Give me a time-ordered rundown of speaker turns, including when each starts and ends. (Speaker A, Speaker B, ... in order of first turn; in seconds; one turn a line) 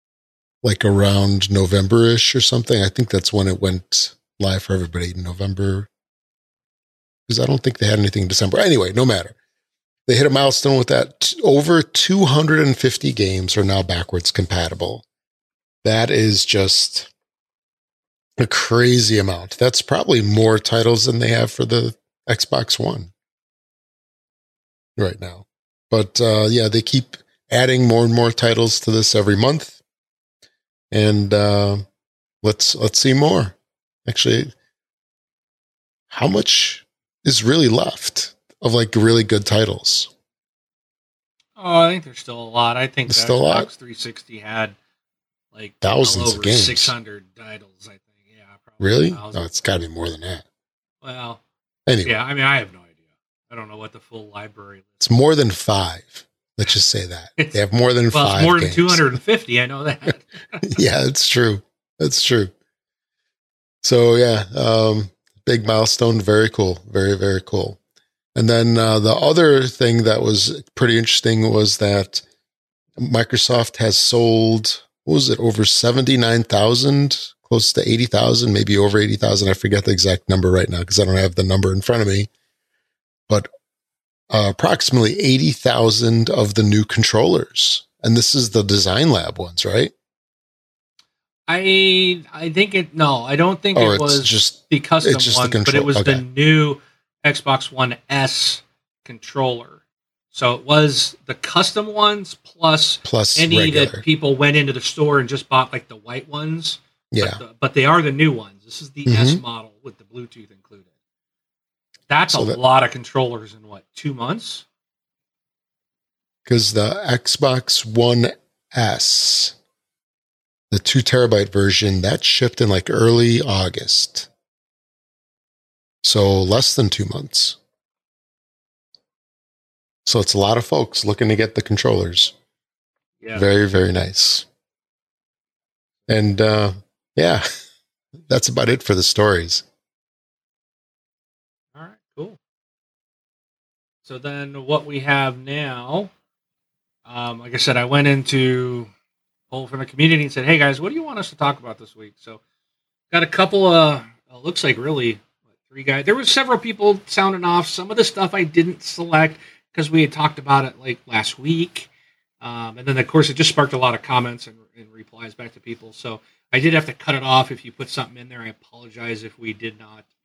Speaker A: 0.6-5.9
Speaker A: 7.3-9.3
Speaker A: 10.1-15.0
Speaker A: 15.8-17.1
Speaker A: 18.4-23.1
Speaker A: 25.0-29.8
Speaker A: 30.9-31.8
Speaker A: 32.4-34.5
Speaker A: 36.1-40.1
Speaker B: 41.5-44.8
Speaker A: 43.1-43.7
Speaker B: 45.5-49.5
Speaker A: 45.8-46.9
Speaker A: 48.8-50.4
Speaker B: 51.0-51.4
Speaker A: 51.9-52.1
Speaker B: 52.0-52.9
Speaker B: 53.5-55.0
Speaker A: 55.0-59.1
Speaker B: 58.1-60.7
Speaker A: 60.6-62.5
Speaker A: 63.8-67.8
Speaker A: 68.3-72.2
Speaker A: 73.0-82.3
Speaker A: 84.3-89.9
Speaker B: 91.5-99.8
Speaker A: 93.7-96.2
Speaker B: 100.3-110.8
Speaker A: 103.0-104.0
Speaker A: 107.1-107.4
Speaker A: 109.0-109.4
Speaker B: 112.1-114.6
Speaker A: 112.3-112.6
Speaker A: 116.5-119.5
Speaker A: 120.7-124.3
Speaker A: 126.0-127.6
Speaker A: 130.1-132.3
Speaker A: 133.3-134.4
Speaker A: 136.1-137.4
Speaker A: 138.2-139.6
Speaker B: 141.7-142.4
Speaker B: 144.0-146.1
Speaker B: 147.1-148.9
Speaker B: 149.5-152.4
Speaker B: 153.1-161.9
Speaker B: 162.4-170.0